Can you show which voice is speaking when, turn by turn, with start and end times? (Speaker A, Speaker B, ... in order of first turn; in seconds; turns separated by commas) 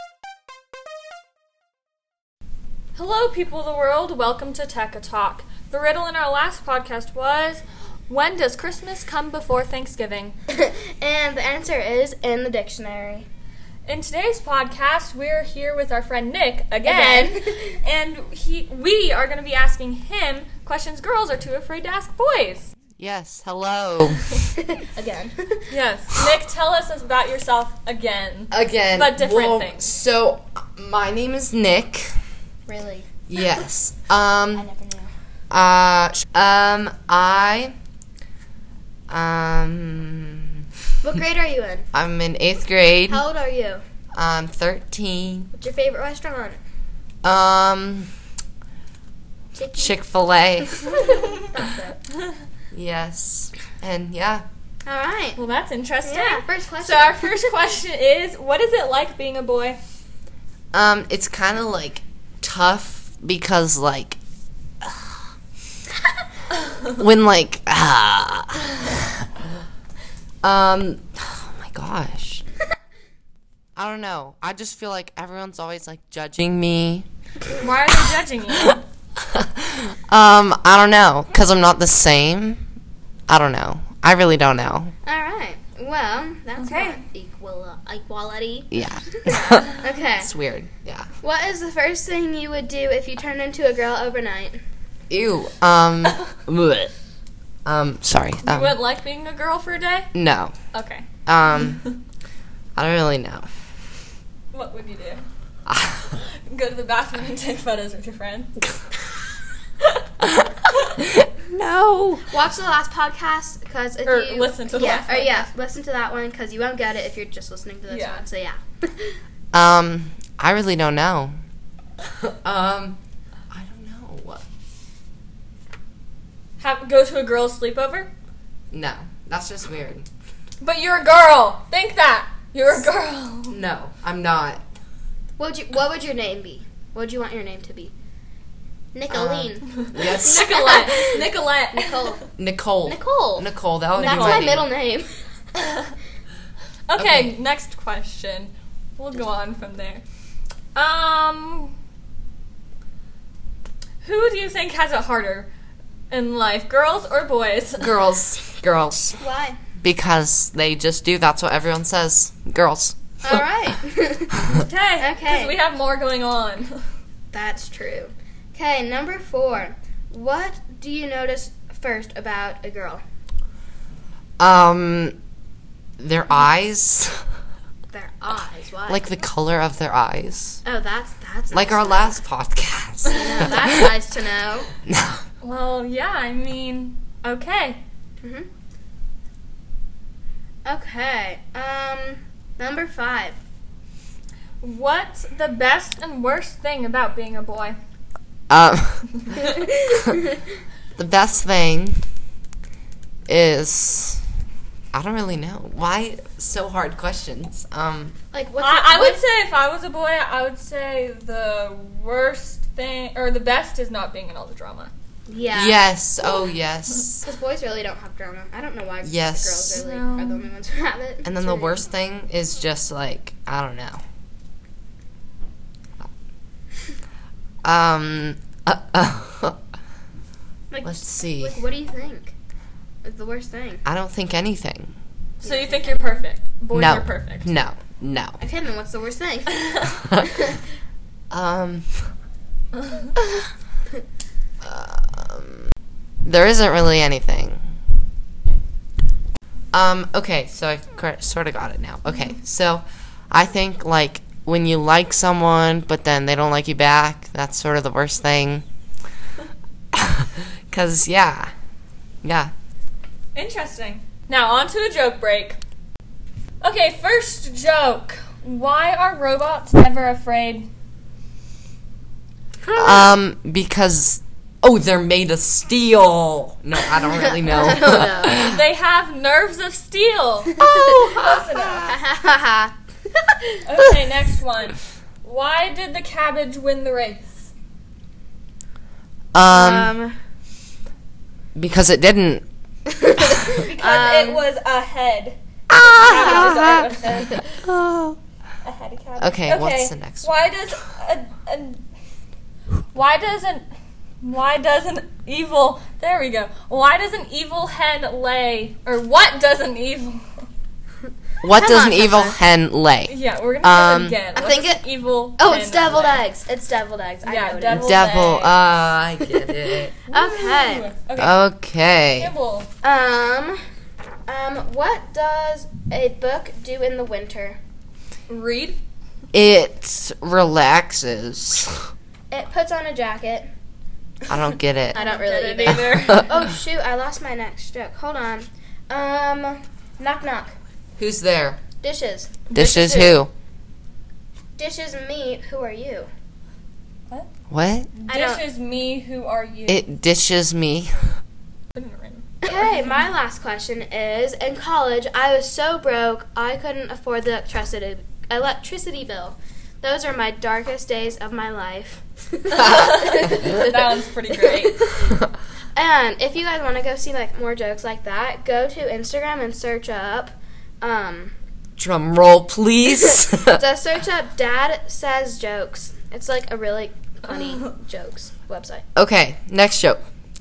Speaker A: 3.0-10.3, Speaker B: 10.5-13.2, Speaker A: 13.8-22.7, Speaker B: 16.9-17.8, Speaker C: 23.0-24.2, Speaker B: 24.6-25.6, Speaker A: 25.7-29.8, Speaker C: 28.5-32.1, Speaker B: 32.7-33.1, Speaker C: 33.3-34.6, Speaker B: 34.6-35.1, Speaker C: 35.5-37.7, Speaker C: 39.1-40.6, Speaker B: 41.0-41.9, Speaker C: 41.9-43.2, Speaker B: 43.1-43.8, Speaker C: 44.1-45.5, Speaker B: 45.5-46.6, Speaker C: 47.2-48.1, Speaker B: 49.5-49.9, Speaker C: 49.8-51.0, Speaker B: 50.8-51.9, Speaker C: 52.7-54.4, Speaker B: 54.8-55.4, Speaker A: 55.4-59.8, Speaker B: 56.0-57.3, Speaker C: 60.7-64.2, Speaker C: 66.8-69.3, Speaker C: 70.4-72.4, Speaker C: 73.8-77.0, Speaker A: 77.6-78.8, Speaker C: 78.5-82.6, Speaker C: 83.3-84.9, Speaker B: 85.0-88.7, Speaker A: 86.6-87.0, Speaker C: 88.7-91.1, Speaker B: 89.2-90.2, Speaker A: 89.5-89.8, Speaker B: 91.2-94.6, Speaker C: 95.1-96.9, Speaker C: 97.6-98.8, Speaker A: 98.4-100.1, Speaker C: 100.1-100.5, Speaker A: 100.7-102.0, Speaker C: 101.2-101.8, Speaker C: 102.8-103.5, Speaker A: 104.5-105.2, Speaker C: 105.7-106.2, Speaker A: 106.1-108.6, Speaker C: 111.0-112.3, Speaker B: 112.3-119.2, Speaker A: 114.0-115.5, Speaker A: 117.9-118.2, Speaker C: 119.5-121.3, Speaker C: 122.0-123.0, Speaker C: 123.5-124.4, Speaker A: 126.6-128.1, Speaker C: 128.7-130.1, Speaker A: 130.6-133.6, Speaker C: 133.5-134.6, Speaker B: 135.4-137.9, Speaker B: 138.9-142.2, Speaker C: 139.1-140.6, Speaker A: 139.8-142.3, Speaker C: 142.3-144.7, Speaker B: 142.8-143.5, Speaker A: 143.9-144.6, Speaker B: 144.0-145.1, Speaker A: 145.6-145.9, Speaker A: 146.9-150.0, Speaker C: 146.9-147.4, Speaker A: 150.7-151.7, Speaker A: 154.0-155.5, Speaker A: 156.1-157.9, Speaker C: 157.8-159.2, Speaker B: 159.2-159.6, Speaker C: 159.8-163.4, Speaker B: 163.2-164.3, Speaker A: 164.5-166.8, Speaker B: 165.0-165.5, Speaker B: 167.3-173.0, Speaker C: 174.4-175.2, Speaker C: 176.0-177.2, Speaker B: 177.9-179.0, Speaker C: 178.9-180.6, Speaker B: 180.6-182.1, Speaker C: 181.5-183.9, Speaker B: 183.1-184.7, Speaker C: 184.9-185.2, Speaker A: 185.4-187.8, Speaker B: 188.2-188.5, Speaker B: 190.6-193.4, Speaker A: 194.6-197.8, Speaker C: 198.5-200.2, Speaker C: 200.9-202.1, Speaker C: 203.3-204.2, Speaker C: 204.9-208.2, Speaker B: 208.3-209.2, Speaker A: 208.6-214.9, Speaker B: 215.3-216.2, Speaker C: 215.5-217.2, Speaker B: 217.2-221.8, Speaker C: 219.0-219.8, Speaker A: 219.7-220.5, Speaker C: 221.2-224.0, Speaker C: 227.6-229.6, Speaker B: 230.7-232.3, Speaker C: 230.8-231.6, Speaker B: 233.0-233.8, Speaker C: 233.8-234.9, Speaker A: 235.4-237.5, Speaker B: 235.4-236.2, Speaker C: 236.7-238.4, Speaker B: 238.4-239.5, Speaker C: 241.3-242.1, Speaker A: 242.8-243.1, Speaker C: 244.6-245.7, Speaker C: 246.2-247.6, Speaker C: 249.7-258.6, Speaker C: 259.9-261.5, Speaker C: 262.2-262.5, Speaker A: 263.3-265.6, Speaker A: 266.6-270.7, Speaker B: 272.7-273.1, Speaker C: 272.8-278.6, Speaker B: 277.4-278.3, Speaker A: 278.2-282.0, Speaker C: 280.6-281.9, Speaker B: 281.8-282.7, Speaker A: 283.6-287.5, Speaker C: 289.3-289.9, Speaker B: 289.5-290.1, Speaker C: 291.6-292.4, Speaker B: 292.9-293.2, Speaker A: 293.4-297.7, Speaker B: 293.7-294.4, Speaker C: 295.7-296.9, Speaker C: 297.6-298.2, Speaker A: 298.6-301.8, Speaker C: 299.2-300.3, Speaker A: 302.9-303.6, Speaker A: 304.2-310.5, Speaker C: 311.4-314.2, Speaker B: 311.6-312.4, Speaker A: 313.1-316.2, Speaker B: 314.3-314.8, Speaker B: 315.4-317.8, Speaker A: 317.2-318.6, Speaker C: 317.7-319.9, Speaker A: 320.1-321.5, Speaker B: 320.1-320.8, Speaker C: 321.1-322.3, Speaker A: 322.2-322.7, Speaker B: 322.8-323.6, Speaker B: 324.3-327.6, Speaker A: 328.3-328.8, Speaker C: 329.3-331.8, Speaker B: 332.3-333.5, Speaker C: 334.3-335.0, Speaker A: 334.9-336.4, Speaker B: 335.0-340.6, Speaker C: 335.6-336.2, Speaker C: 341.0-341.6, Speaker B: 341.8-342.3, Speaker A: 342.5-343.2, Speaker C: 342.5-343.3, Speaker B: 344.6-346.1, Speaker C: 347.5-347.9, Speaker A: 347.9-349.8, Speaker B: 348.1-348.4, Speaker C: 349.7-351.1, Speaker A: 351.7-353.1, Speaker B: 352.5-362.7, Speaker A: 362.5-365.0, Speaker C: 362.6-363.1, Speaker B: 365.8-371.3, Speaker C: 371.8-373.6, Speaker B: 373.6-378.8, Speaker A: 377.2-377.7, Speaker C: 378.9-380.0